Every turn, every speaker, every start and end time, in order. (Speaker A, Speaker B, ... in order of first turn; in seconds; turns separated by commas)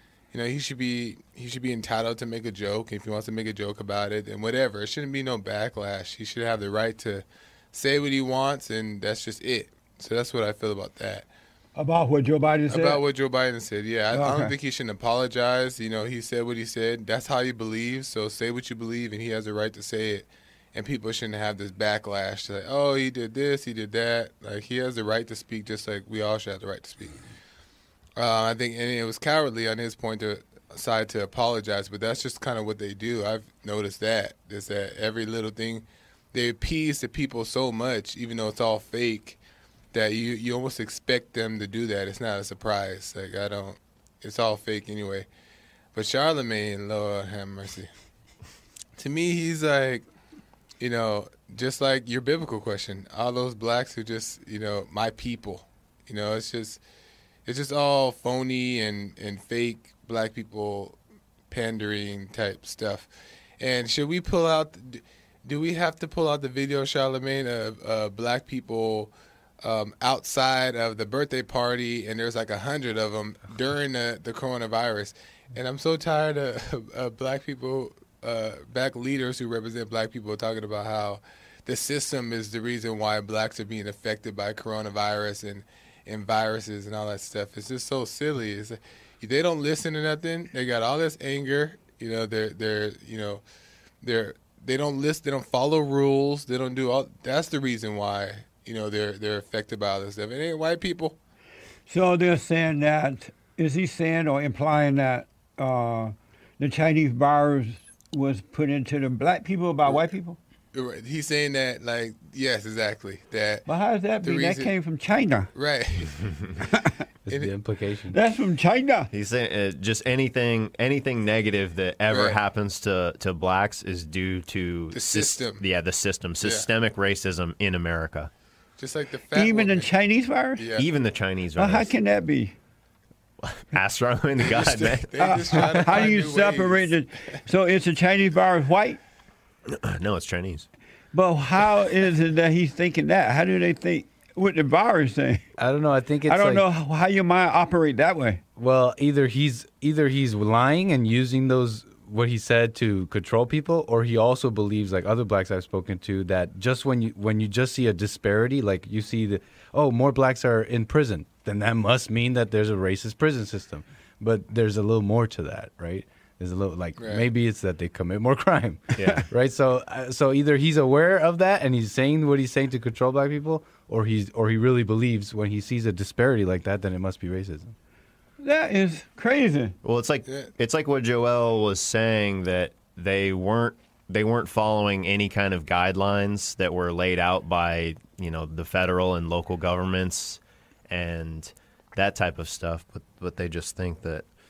Speaker A: 0.3-11.3, Speaker B: 11.8-13.0, Speaker A: 12.7-27.2, Speaker B: 14.1-14.5, Speaker A: 28.2-39.4, Speaker A: 39.9-45.3, Speaker A: 45.9-47.9, Speaker A: 49.0-50.0, Speaker A: 50.8-56.8, Speaker A: 57.5-61.0, Speaker A: 61.5-93.4, Speaker A: 94.0-101.2, Speaker B: 101.9-110.4, Speaker A: 110.7-113.6, Speaker B: 113.7-115.5, Speaker A: 114.2-114.7, Speaker A: 115.5-116.4, Speaker C: 117.3-118.2, Speaker B: 118.1-119.1, Speaker D: 119.1-128.3, Speaker A: 122.1-122.4, Speaker A: 124.9-125.6, Speaker A: 126.4-126.7, Speaker A: 128.8-129.9, Speaker B: 129.3-130.6, Speaker A: 130.6-130.9, Speaker D: 130.8-131.9, Speaker B: 131.6-132.5, Speaker D: 133.4-135.7, Speaker A: 134.4-136.9, Speaker B: 135.2-139.0, Speaker D: 139.7-140.7, Speaker B: 141.1-145.4, Speaker C: 145.6-146.6, Speaker B: 146.2-148.4, Speaker C: 148.6-177.7, Speaker A: 167.0-167.3, Speaker D: 168.9-169.3, Speaker B: 178.4-179.8, Speaker D: 179.8-194.2